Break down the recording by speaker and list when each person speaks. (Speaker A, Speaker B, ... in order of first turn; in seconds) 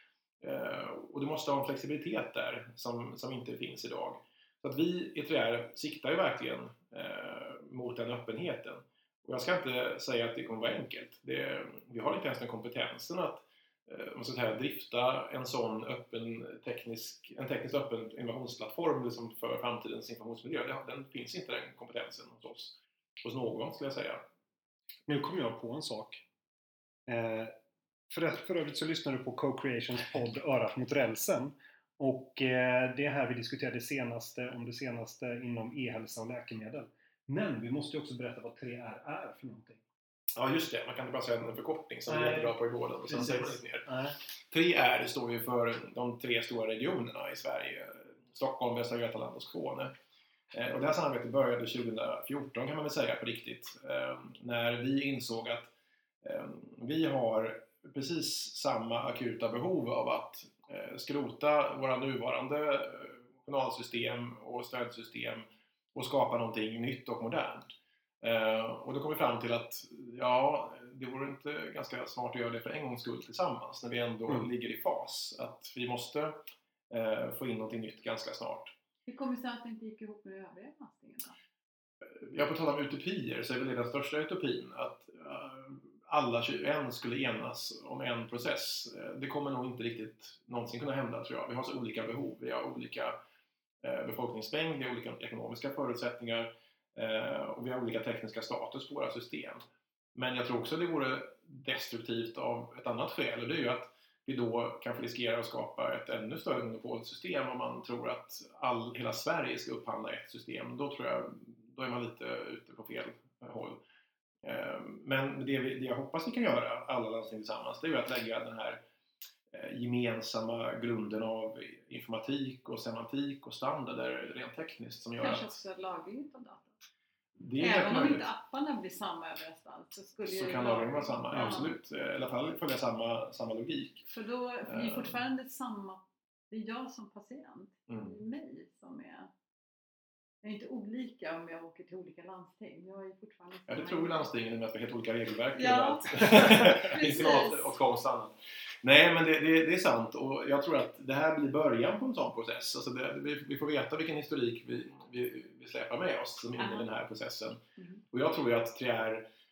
Speaker A: 0.4-24.2, 40.4-49.9, 50.5-67.7, 68.2-78.7, 82.0-93.2, 93.8-99.6, 100.1-113.8, 114.4-118.8, 119.5-125.6, 127.4-128.3, 130.3-134.0, 134.7-135.2, 137.9-138.2, 143.7-157.6, 158.1-159.2
Speaker B: 25.1-26.2, 27.1-27.5, 28.1-39.8, 42.1-42.5, 43.0-44.2, 131.3-131.6
Speaker C: 79.0-81.3, 125.2-126.7, 127.6-131.8, 134.1-139.3, 140.4-144.3, 145.5-147.8, 156.6-156.8